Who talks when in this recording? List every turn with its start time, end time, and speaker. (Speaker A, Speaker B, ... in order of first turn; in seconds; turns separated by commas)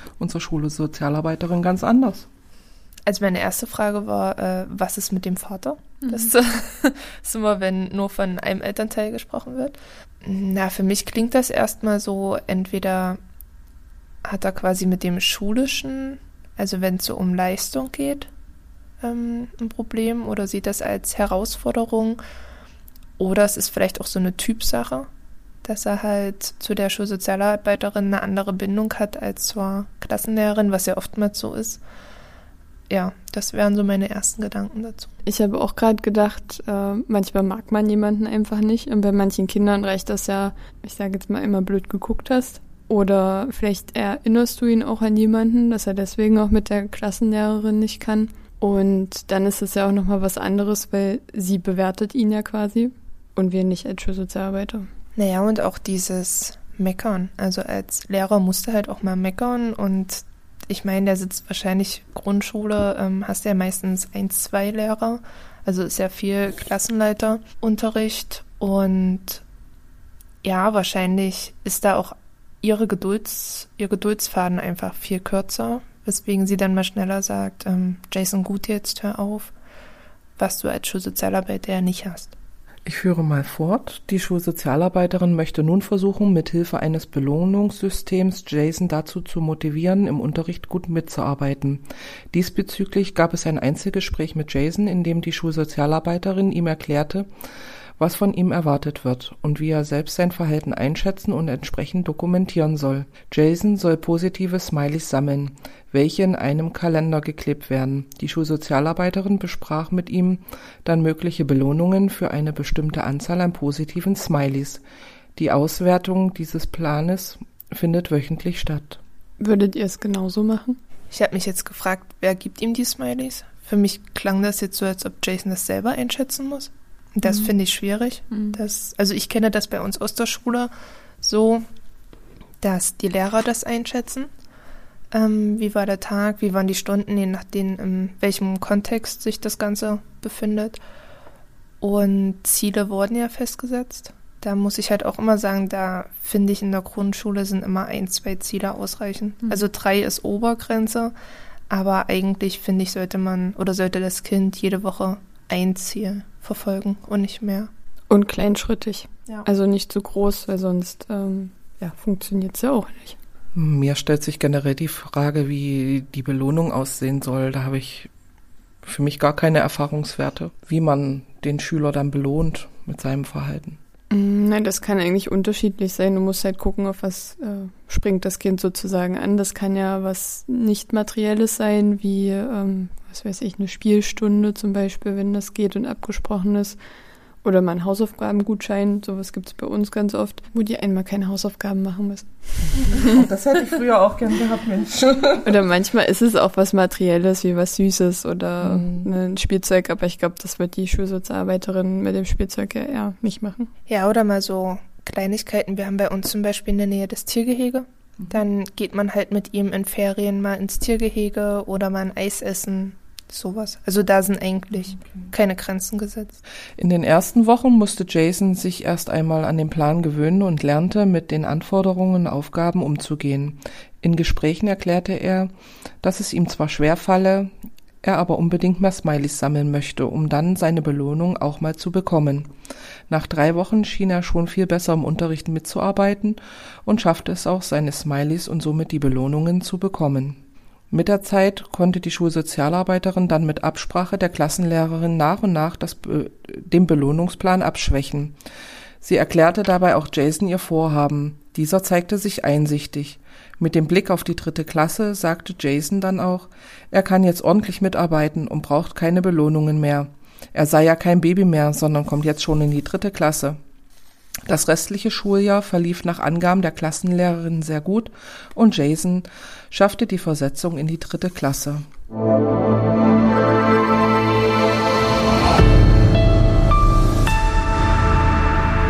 Speaker A: 0.2-2.3, Speaker B: 3.0-13.2, Speaker B: 14.2-18.3, Speaker B: 19.0-22.2, Speaker B: 23.2-25.1, Speaker B: 25.6-31.8, Speaker B: 32.9-35.1, Speaker C: 35.2-54.9, Speaker B: 55.1-69.4, Speaker B: 70.4-79.5, Speaker B: 80.4-82.3, Speaker A: 82.8-97.3, Speaker A: 98.0-114.8, Speaker A: 115.3-119.0, Speaker C: 119.4-120.8, Speaker B: 121.1-130.7, Speaker C: 128.3-128.6, Speaker B: 131.2-131.6, Speaker B: 132.6-134.3, Speaker B: 135.1-140.8, Speaker B: 141.8-151.1, Speaker B: 151.7-157.7, Speaker C: 158.1-163.2, Speaker A: 163.5-168.1, Speaker A: 168.8-173.8, Speaker C: 174.1-186.8, Speaker C: 187.4-193.1, Speaker A: 192.8-195.5, Speaker C: 195.4-203.7, Speaker A: 198.6-199.1, Speaker B: 203.9-216.4, Speaker A: 216.8-225.5, Speaker A: 226.0-227.5, Speaker A: 228.0-232.5, Speaker A: 233.1-240.4, Speaker A: 240.9-248.3, Speaker A: 249.0-263.6, Speaker A: 264.4-271.9